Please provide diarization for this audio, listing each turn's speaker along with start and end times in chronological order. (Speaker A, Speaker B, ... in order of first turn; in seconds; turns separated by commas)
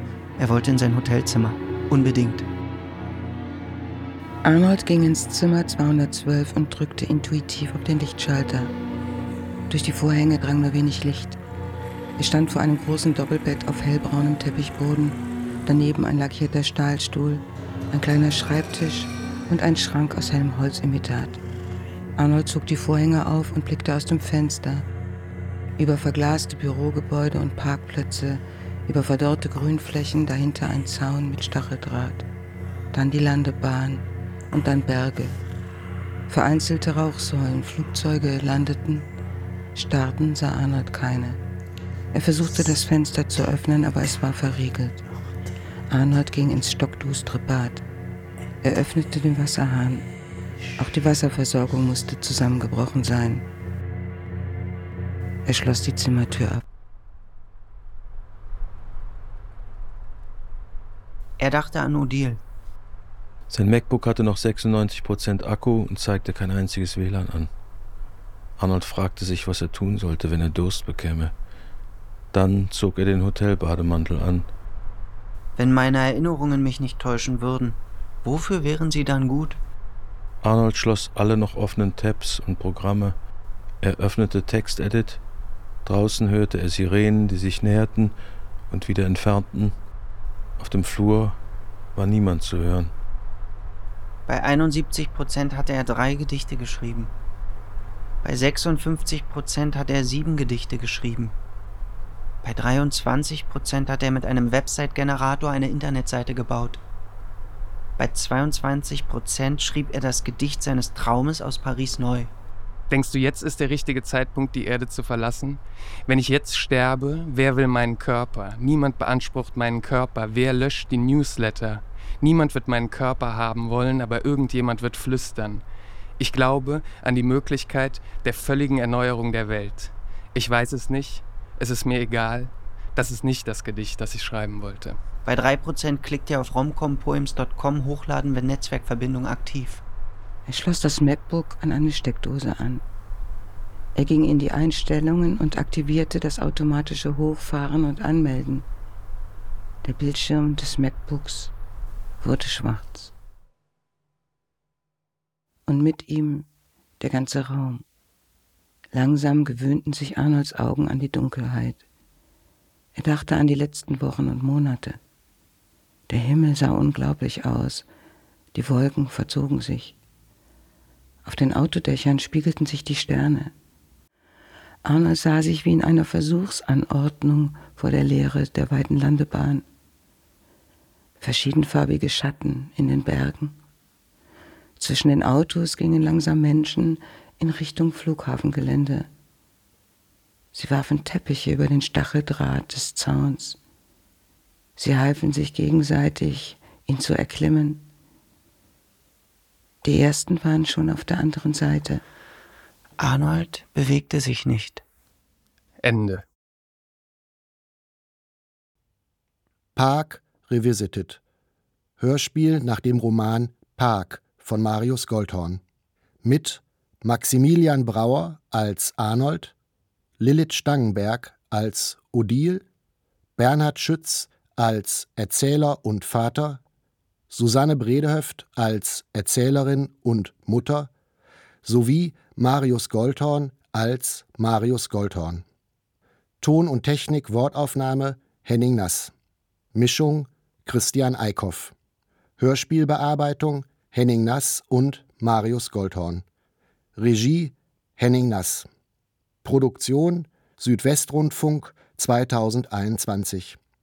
Speaker A: 0.4-2.5, Speaker B: 4.5-8.7, Speaker B: 9.7-11.4, Speaker B: 12.2-21.4, Speaker B: 22.2-24.9, Speaker B: 25.8-32.3, Speaker B: 32.9-35.4, Speaker B: 36.3-39.1, Speaker B: 39.8-41.4, Speaker B: 42.1-45.0, Speaker B: 45.9-47.8, Speaker B: 48.6-50.1, Speaker B: 50.8-53.5, Speaker B: 55.5-56.6, Speaker A: 61.4-62.4, Speaker C: 63.5-67.5, Speaker C: 68.6-71.3, Speaker C: 72.3-74.5, Speaker A: 75.6-79.6, Speaker C: 80.4-83.2, Speaker C: 83.8-85.2, Speaker C: 85.8-88.1, Speaker C: 88.7-89.8, Speaker C: 90.6-91.4, Speaker C: 92.0-92.9, Speaker A: 94.3-97.1, Speaker A: 98.2-101.3, Speaker A: 102.4-106.8, Speaker A: 108.0-112.3, Speaker D: 112.9-125.6, Speaker D: 126.2-135.0, Speaker A: 135.3-139.8, Speaker B: 140.5-142.8, Speaker B: 144.0-148.7, Speaker B: 149.8-151.5, Speaker B: 152.2-153.1, Speaker B: 155.7-156.5, Speaker B: 157.0-157.8, Speaker B: 158.9-161.8, Speaker B: 162.9-165.0, Speaker B: 166.1-167.9, Speaker B: 168.5-169.9, Speaker B: 171.2-173.5, Speaker B: 174.8-179.7, Speaker B: 181.2-183.6, Speaker B: 184.8-189.1, Speaker B: 190.5-193.6, Speaker B: 194.8-197.8, Speaker B: 199.8-202.0, Speaker A: 203.0-204.8, Speaker D: 205.8-206.2, Speaker E: 209.8-211.2, Speaker E: 212.0-215.6, Speaker E: 216.2-219.6, Speaker E: 220.2-222.7, Speaker E: 223.4-226.6, Speaker E: 227.3-230.9, Speaker E: 231.6-235.4, Speaker E: 236.4-239.1, Speaker E: 239.7-241.7, Speaker E: 242.4-246.2, Speaker E: 247.0-248.7, Speaker E: 249.4-253.6